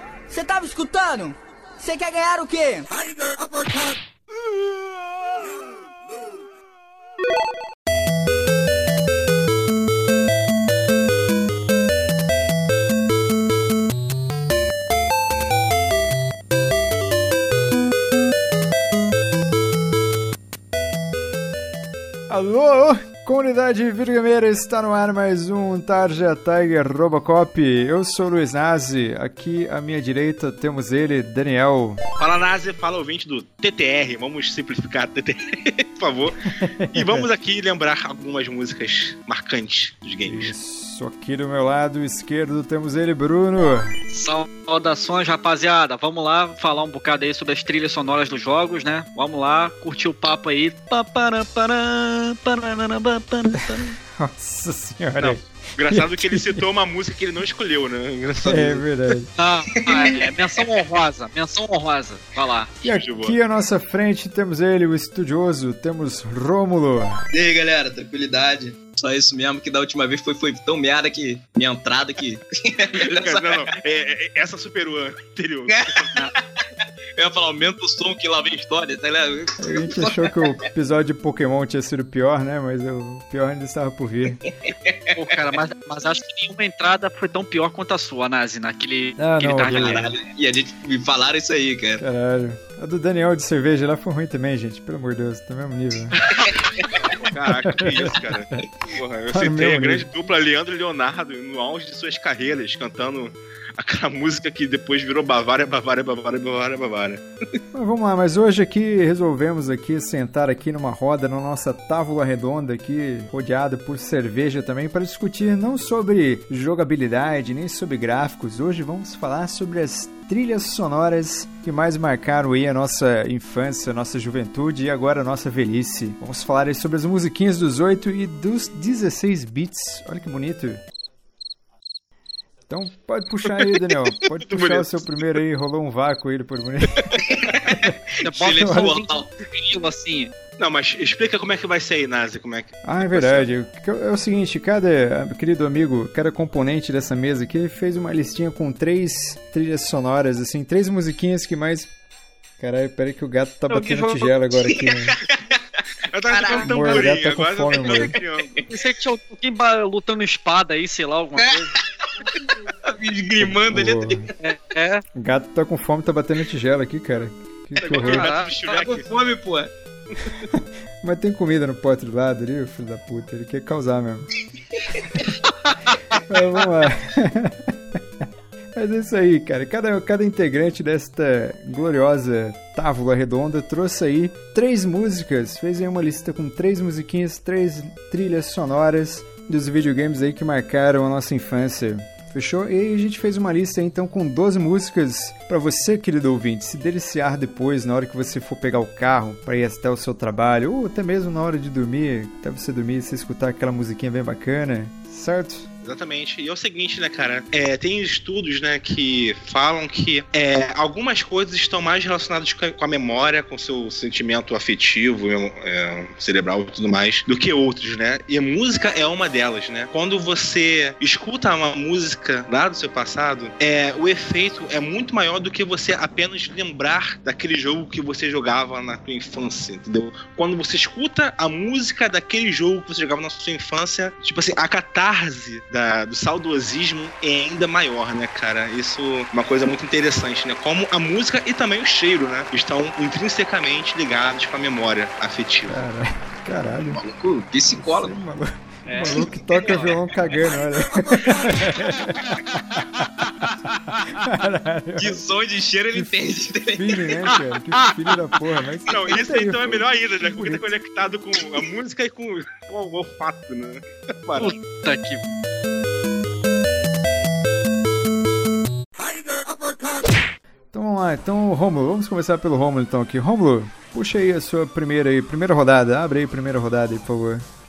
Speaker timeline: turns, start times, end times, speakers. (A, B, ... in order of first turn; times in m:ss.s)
0:00.3-0:03.9 A
0:22.3-0:32.0 B
0:32.2-0:40.5 C
0:36.6-0:37.3 B
0:40.2-0:43.9 B
0:44.1-0:53.9 D
0:54.1-0:56.6 B
0:55.2-0:58.8 C
0:58.4-0:59.3 B
0:59.4-1:02.7 D
0:59.8-1:00.3 E
1:02.8-1:07.2 B
1:02.8-1:03.4 C
1:07.3-1:13.7 E
1:12.9-1:16.2 C
1:15.7-1:16.4 E
1:17.2-1:20.5 E
1:19.6-1:24.4 B
1:24.6-1:25.2 E
1:25.1-1:30.1 D
1:29.2-1:30.1 B
1:29.7-1:32.0 E
1:32.0-1:36.2 B
1:36.2-1:36.6 D
1:36.8-1:37.1 E
1:37.1-1:47.2 C
1:37.6-1:38.7 B
1:39.3-1:40.1 B
1:47.7-2:10.8 B
2:12.7-2:17.1 B
2:13.5-2:15.4 C
2:17.0-2:17.4 C
2:17.2-2:19.3 E
2:17.7-2:18.0 B
2:18.2-2:20.3 D
2:18.5-2:18.9 B
2:20.6-2:23.5 C
2:22.8-2:31.9 B
2:32.6-2:35.2 B
2:33.7-2:34.3 D
2:34.7-2:35.3 E
2:36.1-2:38.6 C
2:36.3-2:37.2 E
2:36.6-2:38.1 B
2:37.7-2:38.6 E
2:38.7-2:41.7 D
2:41.4-2:44.3 E
2:43.4-2:44.3 B
2:44.4-2:45.0 D
2:45.1-2:48.4 B
2:47.8-2:49.1 C
2:48.0-2:48.8 D
2:48.7-2:49.7 E
2:50.6-2:54.3 B
2:54.8-2:55.1 E
2:55.7-2:56.2 D
2:56.2-2:57.7 B
2:58.8-3:25.7 B
3:25.8-4:05.8 C
4:05.7-4:07.0 B
4:06.9-4:08.1 E
4:07.8-4:12.3 B
4:08.9-4:10.0 D
4:14.0-4:15.2 B
4:15.0-4:17.3 E
4:15.9-4:20.7 B
4:17.3-4:17.9 D
4:18.9-4:24.6 C
4:24.4-4:25.3 D
4:30.7-4:37.4 B